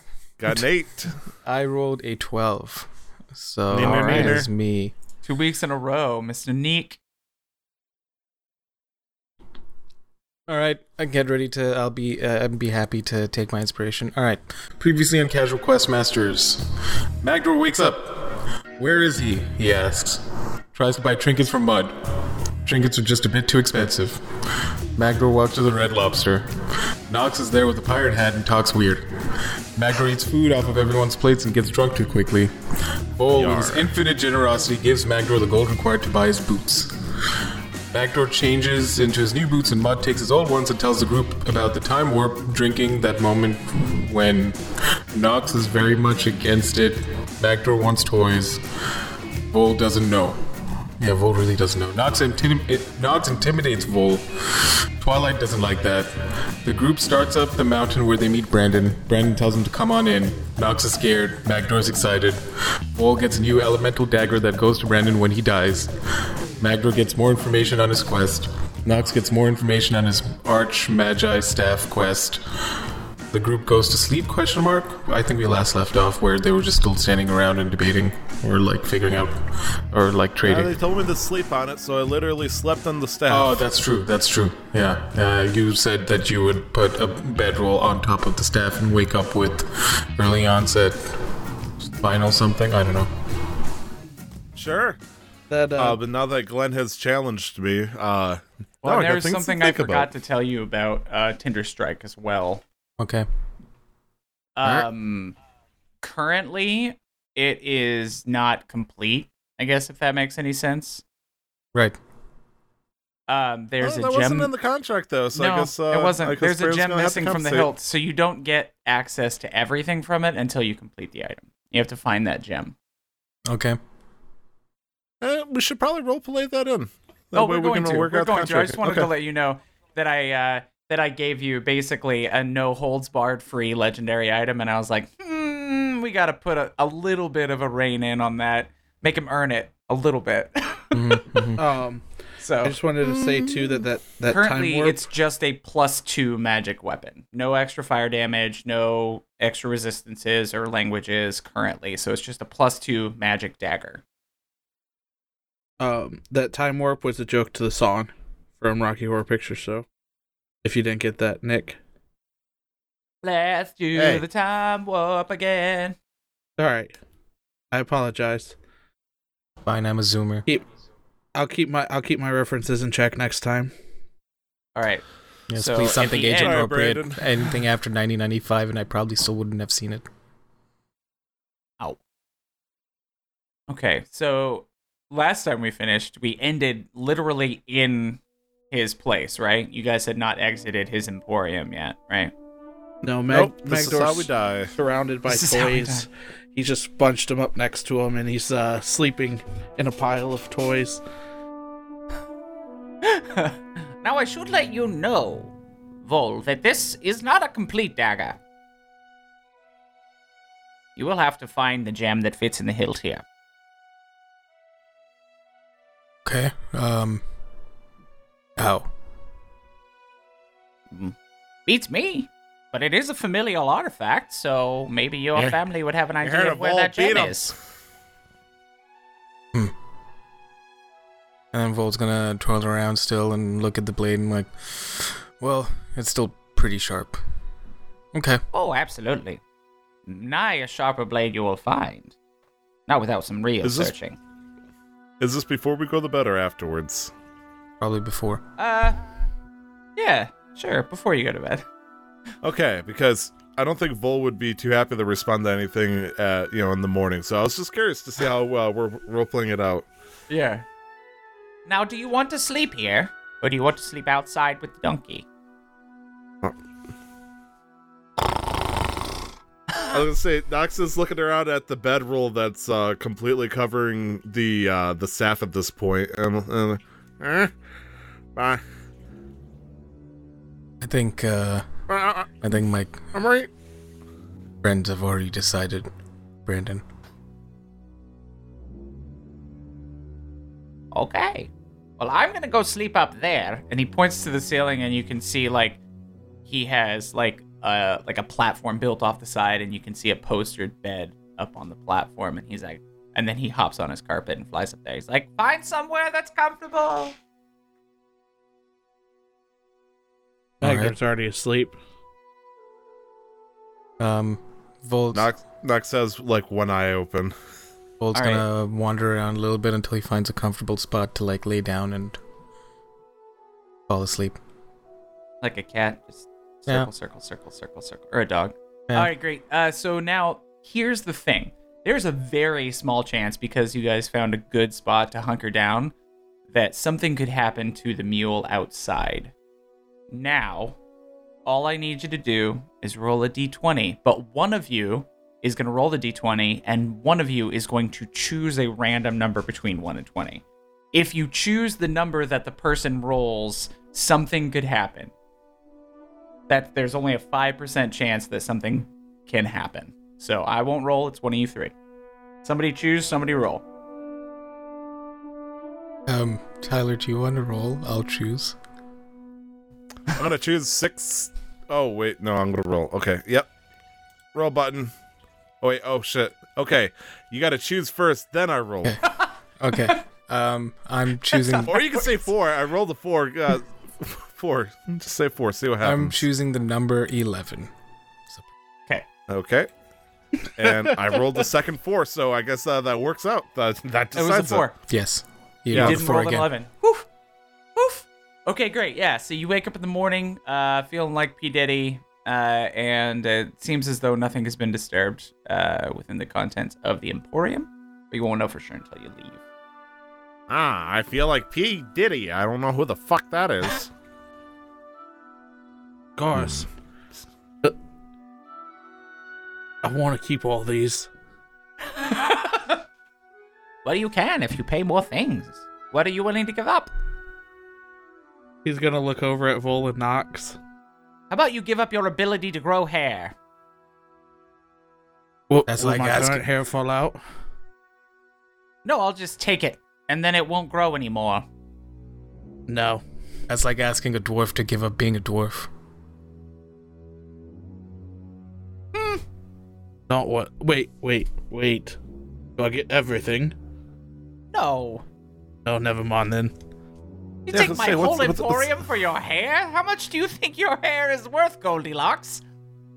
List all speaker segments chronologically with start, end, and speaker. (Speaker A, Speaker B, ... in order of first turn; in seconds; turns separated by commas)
Speaker A: 0.4-1.2, Speaker B: 1.4-4.9, Speaker A: 3.7-4.5, Speaker C: 3.8-4.4, Speaker C: 5.2-7.0, Speaker B: 10.5-16.7, Speaker B: 17.2-24.2, Speaker B: 25.0-26.5, Speaker B: 27.1-32.5, Speaker B: 33.1-36.9, Speaker A: 33.4-33.9, Speaker B: 37.9-44.6, Speaker B: 45.1-48.6, Speaker B: 49.5-50.4, Speaker B: 51.0-62.4, Speaker B: 62.9-65.9, Speaker B: 66.6-80.7, Speaker A: 80.5-83.6, Speaker B: 83.3-91.1, Speaker B: 91.8-93.1, Speaker A: 94.5-95.0, Speaker D: 95.5-96.0, Speaker A: 95.8-100.1, Speaker C: 98.8-102.6, Speaker B: 103.0-103.3, Speaker C: 104.6-105.3, Speaker C: 106.0-111.0, Speaker C: 113.3-114.5, Speaker A: 113.8-117.7, Speaker C: 115.3-122.8, Speaker B: 123.5-123.8, Speaker A: 125.2-129.1, Speaker C: 127.3-141.0, Speaker B: 140.9-141.6, Speaker D: 141.6-142.1, Speaker C: 142.4-142.8, Speaker D: 142.6-145.1, Speaker C: 144.3-154.0, Speaker D: 155.8-159.8, Speaker D: 160.6-161.8, Speaker C: 163.2-166.0, Speaker A: 163.9-164.2, Speaker D: 166.6-167.0, Speaker D: 167.7-168.6, Speaker B: 169.7-170.5, Speaker D: 171.3-173.7, Speaker C: 174.8-176.6, Speaker B: 175.5-180.1, Speaker A: 176.3-177.2, Speaker C: 183.7-188.2, Speaker C: 188.7-192.3, Speaker D: 193.0-201.0, Speaker A: 193.3-194.8, Speaker C: 195.3-196.1, Speaker C: 203.0-208.4, Speaker C: 211.0-213.2, Speaker B: 216.2-217.2, Speaker B: 218.6-218.9, Speaker C: 221.7-227.5, Speaker A: 226.2-227.6, Speaker B: 231.5-237.2, Speaker B: 238.1-238.4, Speaker C: 238.5-239.4, Speaker C: 240.1-242.2, Speaker C: 242.9-244.2, Speaker A: 243.6-243.9, Speaker A: 245.2-247.1, Speaker B: 247.8-248.4, Speaker C: 248.6-249.0, Speaker C: 250.0-251.7, Speaker A: 252.4-259.9, Speaker C: 260.3-260.6, Speaker C: 261.7-265.3, Speaker A: 269.9-277.5, Speaker A: 278.4-278.6, Speaker B: 280.8-281.7, Speaker A: 281.9-282.4, Speaker B: 282.4-283.1, Speaker A: 283.1-283.5, Speaker B: 284.6-285.9, Speaker B: 286.4-286.8, Speaker C: 290.9-295.8, Speaker C: 296.5-307.2, Speaker B: 310.6-311.0, Speaker D: 310.6-311.8, Speaker B: 314.0-315.3, Speaker A: 315.1-317.4, Speaker B: 318.0-322.2, Speaker C: 318.1-318.4, Speaker B: 323.9-324.4, Speaker C: 325.4-335.9, Speaker C: 336.5-339.3, Speaker C: 340.1-340.8, Speaker C: 341.5-355.1, Speaker C: 356.5-361.7, Speaker C: 362.4-363.6, Speaker B: 366.1-368.6, Speaker A: 370.1-373.5, Speaker A: 374.3-374.9, Speaker A: 375.6-379.0, Speaker B: 379.6-381.8, Speaker C: 381.3-381.8, Speaker A: 381.6-386.2, Speaker B: 385.8-387.7, Speaker A: 389.3-389.7, Speaker A: 390.6-394.7, Speaker C: 394.1-394.7, Speaker B: 394.9-396.5, Speaker A: 395.7-396.0, Speaker C: 395.7-397.1, Speaker C: 397.8-409.4, Speaker A: 410.5-413.9, Speaker D: 416.2-416.7, Speaker A: 416.3-416.6, Speaker D: 419.8-421.1, Speaker C: 421.9-422.8, Speaker C: 423.9-426.9, Speaker D: 428.6-430.6, Speaker C: 431.3-433.4, Speaker D: 435.5-437.2, Speaker B: 435.7-436.4, Speaker C: 438.9-441.5, Speaker D: 442.7-443.0, Speaker B: 443.5-445.7, Speaker C: 448.9-449.2, Speaker D: 450.1-452.0, Speaker D: 452.6-453.6, Speaker C: 454.5-455.0, Speaker D: 455.6-456.5, Speaker C: 457.5-462.4, Speaker A: 457.5-458.8